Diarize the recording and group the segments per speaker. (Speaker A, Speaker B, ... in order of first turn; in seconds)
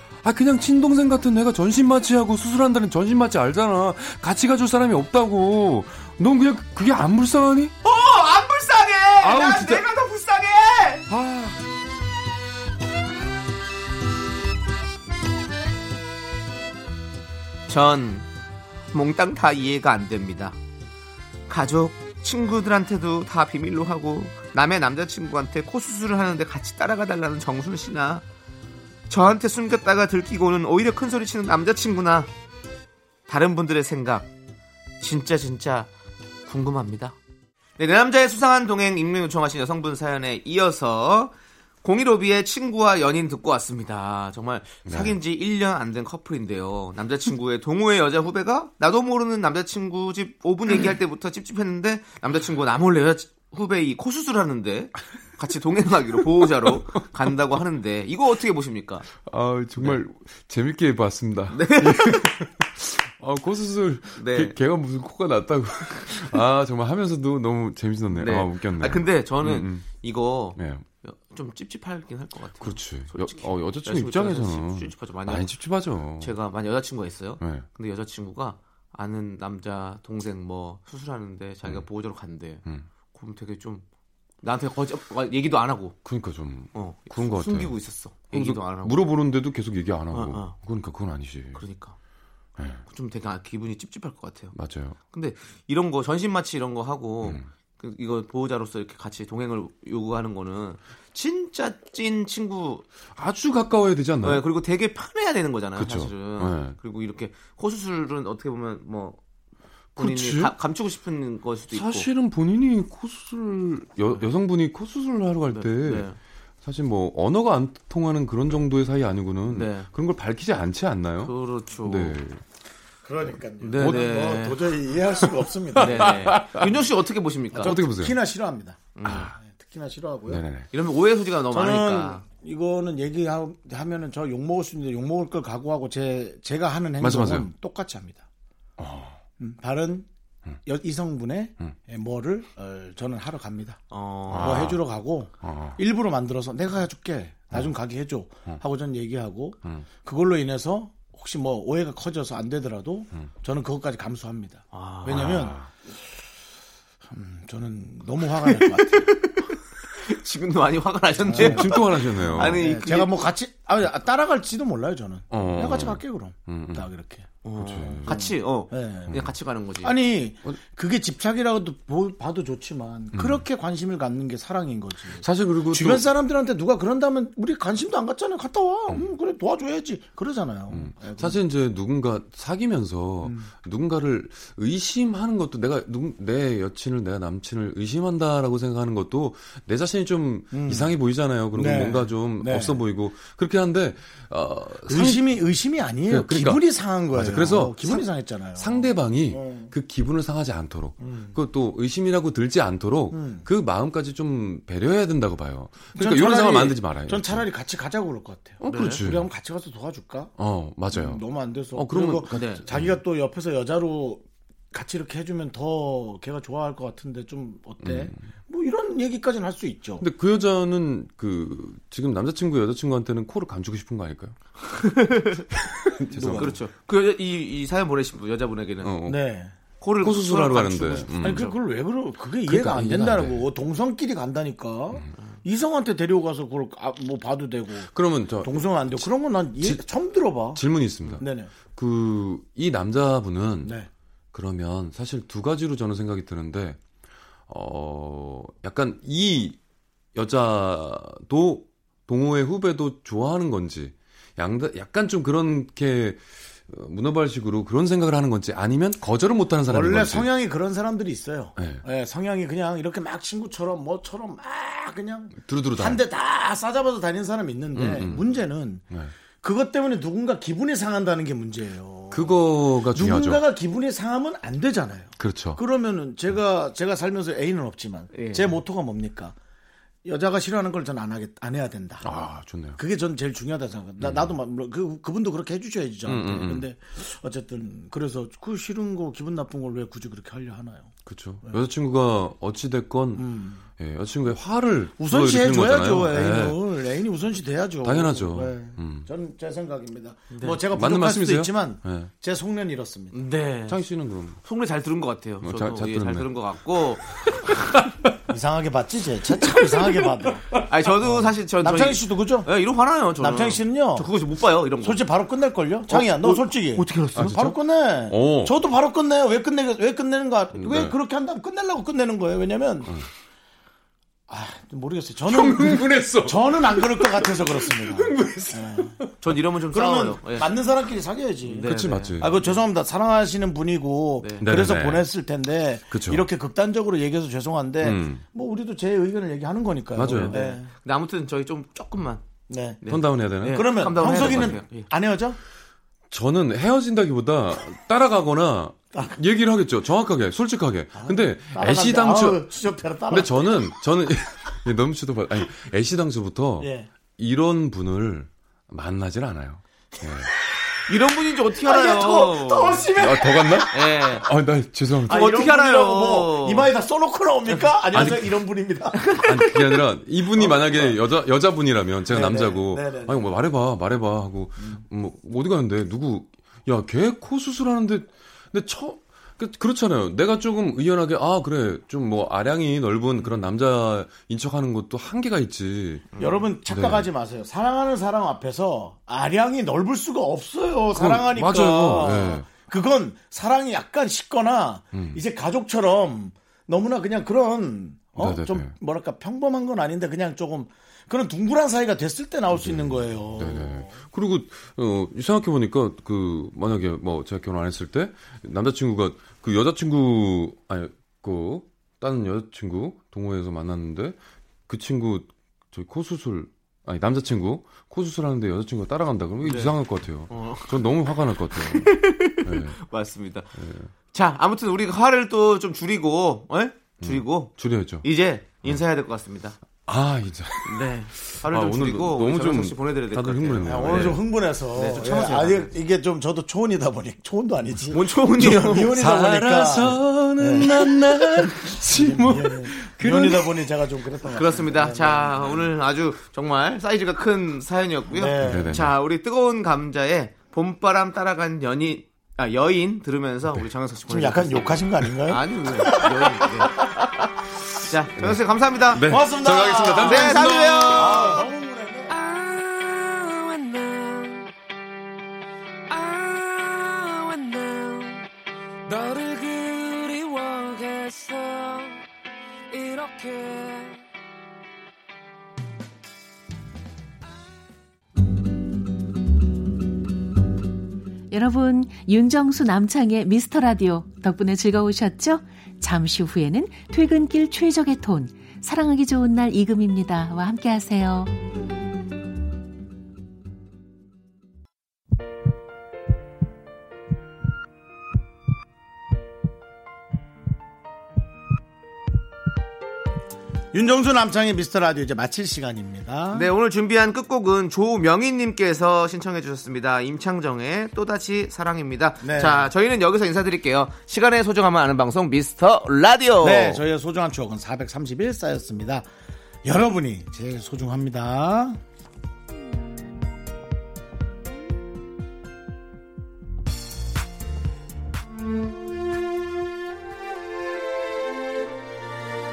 Speaker A: 0.2-7.7, 9.2-9.9, 11.1-11.6, 44.9-45.2, 59.1-69.9, 70.5-70.8, 72.6-76.4, 77.4-77.7, 86.0-91.6, 92.6-92.8, 94.5-95.0, 97.2-97.5, 103.1-104.5, 105.8-106.8, 110.0-110.5, 111.7-116.1, 116.6-122.4, 125.2-126.8, 127.5-128.2, 129.0-129.3, 130.3-130.7, 137.0-137.5, 138.8-139.2, 144.3-144.8, 145.4-145.8, 155.1-155.7, 161.3-162.7, 165.3-166.9, 167.6-168.2, 173.1-173.4, 175.1-176.1, 180.7-195.4, 196.1-207.4, 208.6-209.3, 210.4-213.0, 217.8-218.2, 220.0-224.4, 225.8-226.6, 228.8-229.2, 230.0-231.6, 232.4-233.5, 237.8-239.9, 240.5-243.7, 244.3-246.8, 247.5-249.6, 250.1-260.3, 261.6-261.8, 265.4-266.0, 267.7-269.1, 272.1-273.4, 275.2-275.6, 282.0-282.8, 284.0-284.4, 286.0-286.7, 291.1-296.6, 297.8-299.1, 300.6-302.1, 303.7-304.4, 305.4-306.5, 307.3-307.5, 309.5-310.1, 317.1-318.6, 320.5-320.9, 325.2-329.1, 331.6-332.5, 334.4-335.1, 335.9-336.3, 337.8-338.2, 339.9-340.5, 342.9-344.6, 346.1-360.3, 363.0-365.3, 367.9-368.4, 369.1-386.1, 386.6-387.1, 390.9-392.5, 394.9-395.2, 398.1-398.7, 402.5-414.1, 414.7-422.8, 423.6-423.9, 427.0-428.1, 429.9-434.2, 438.9-443.7, 448.4-448.9, 458.9-461.3
Speaker B: 7.8-11.1, 17.7-18.3, 18.9-20.6, 21.5-28.2, 29.1-32.3, 33.3-34.3, 35.0-35.9, 36.5-37.1, 37.8-41.3, 41.8-59.1, 61.5-62.3, 64.1-64.5, 68.1-75.5, 76.2-83.8, 84.4-86.0, 86.7-89.1, 90.1-90.5, 91.5-92.0, 92.9-94.5, 95.1-102.8, 104.2-109.2, 110.0-112.1, 115.5-116.2, 119.5-119.9, 121.2-122.2, 123.6-124.6, 125.8-127.8, 128.9-129.3, 130.7-132.2, 143.9-144.7, 154.7-155.5, 158.4-163.2, 167.4-169.9, 208.7-209.0, 212.3-212.6, 224.7-225.4, 226.4-228.9, 229.8-231.6, 278.1-278.6, 300.3-300.6, 303.1-303.8, 304.4-307.2, 310.6-315.0, 315.9-317.4, 329.2-330.5, 331.4-332.6, 334.2-334.4, 340.1-342.2, 342.8-344.9, 360.9-362.9, 363.7-364.3, 365.1-366.7, 369.0-369.7, 386.1-386.5, 419.4-419.7, 420.3-423.5, 424.1-429.6, 430.6-435.7, 437.9-439.0, 444.3-457.2, 457.7-459.1, 459.9-461.4, 506.3-516.8
Speaker C: 123.0-126.1, 127.5-130.4, 131.5-138.2, 139.4-140.1, 140.6-155.6, 157.1-159.1, 161.2-167.4, 168.0-169.2, 169.8-181.4, 183.2-183.5, 190.5-191.0, 191.5-192.8, 194.9-199.7, 201.0-201.4, 203.1-203.4, 205.9-210.3, 210.9-220.0, 226.1-226.5, 229.1-229.5, 231.2-237.9, 238.4-241.5, 243.6-243.9, 259.7-268.8, 269.4-279.4, 280.1-282.1, 282.8-290.9, 293.1-293.6, 295.0-303.2, 308.3-310.4, 311.0-312.5, 313.2-314.1, 314.8-322.9, 324.3-328.9, 329.7-340.7, 342.5-342.8, 343.4-345.4, 350.9-353.8, 356.6-356.9, 361.6-363.9, 365.1-369.1, 370.4-371.0, 372.1-373.3, 386.2-403.9, 433.6-445.7, 448.1-448.7, 454.1-456.7, 459.1-462.1, 503.7-506.5, 512.2-512.7, 516.4-519.0, 519.6-521.8
Speaker D: 462.1-464.5, 465.9-468.3, 468.9-472.1, 472.7-474.0
Speaker E: 481.3-491.3